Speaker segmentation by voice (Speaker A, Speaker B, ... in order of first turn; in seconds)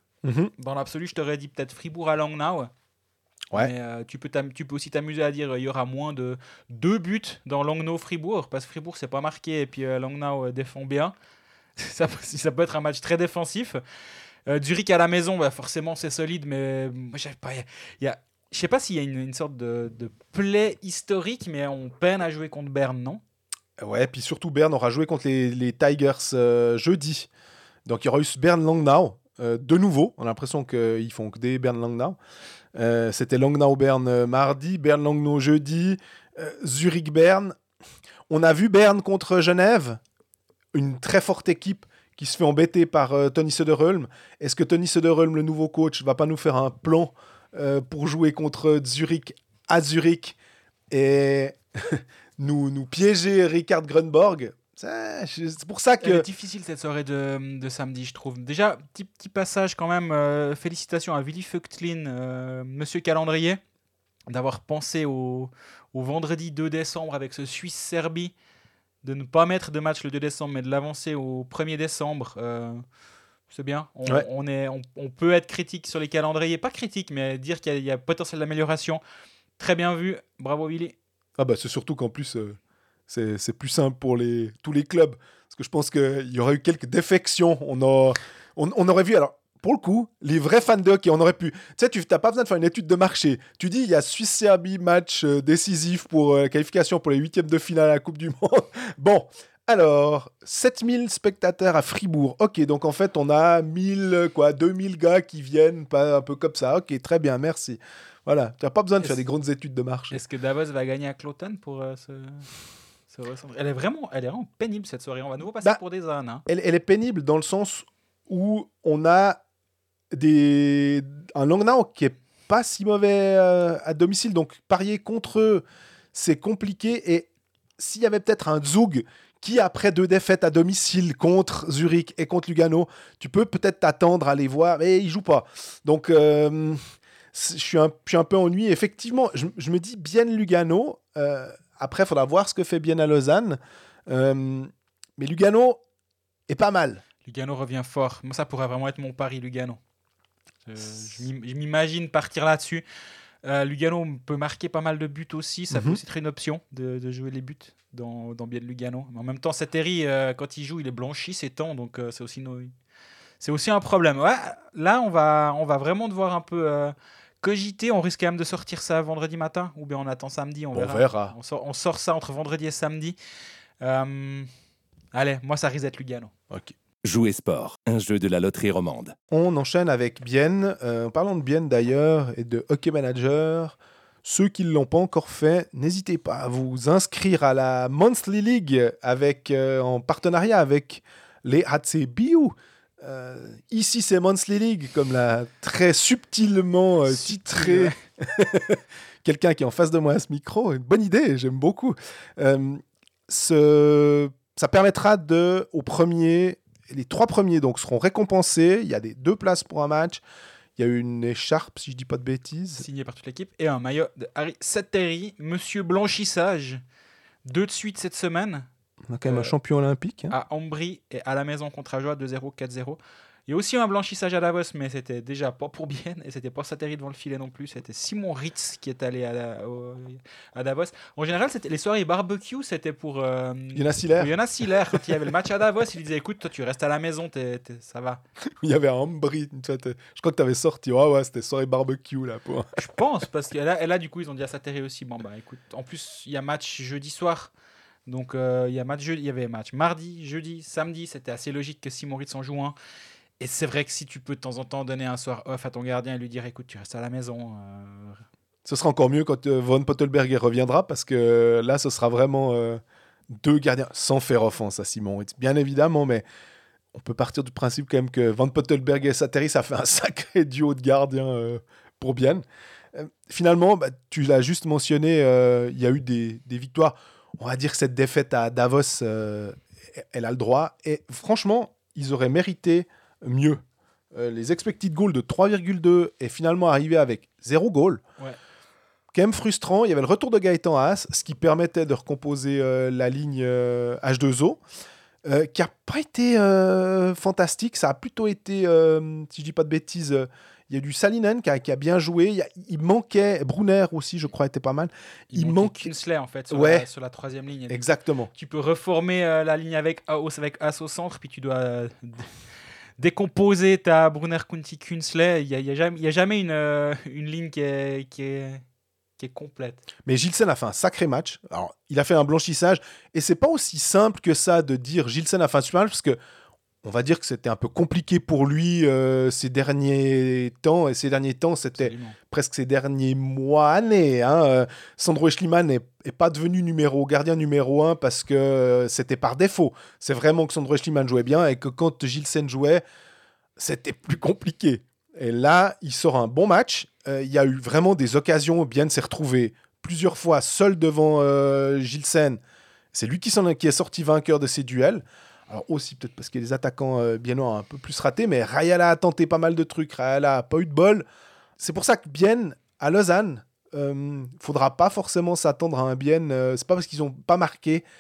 Speaker A: 0.2-0.5, 23.8-27.3, 27.9-32.2, 32.8-37.6, 38.3-40.0, 40.7-50.4, 50.9-56.2, 81.4-110.2, 116.5-119.4, 120.1-127.3, 127.8-136.8, 137.3-145.8, 146.5-147.0, 155.7-156.0, 170.7-171.3, 179.3-210.2, 210.8-212.8, 219.1-220.3, 233.8-234.3, 238.6-242.7, 258.6-266.2, 266.9-283.6, 284.1-288.0, 289.1-294.6, 295.2-305.9, 306.5-306.9, 307.7-308.3, 320.1-326.2, 326.8-342.8, 343.6-352.4, 352.9-361.1, 361.6-367.8
Speaker B: 0.6-2.7, 3.5-11.1, 11.8-13.8, 14.5-23.2, 56.0-63.6, 64.3-68.3, 69.0-72.8, 73.5-79.0, 79.6-81.0, 110.1-112.5, 113.1-116.5, 147.2-149.8, 150.7-152.8, 153.4-162.7, 163.4-173.2, 173.8-174.5, 175.1-176.3, 197.1-198.0, 212.8-216.8, 217.4-218.7, 219.2-219.5, 220.3-238.2, 242.8-247.5, 248.1-252.8, 253.4-258.2, 305.3-307.8, 308.4-312.3, 313.0-318.6, 319.2-319.9, 331.8-332.2
Speaker C: 177.0-179.2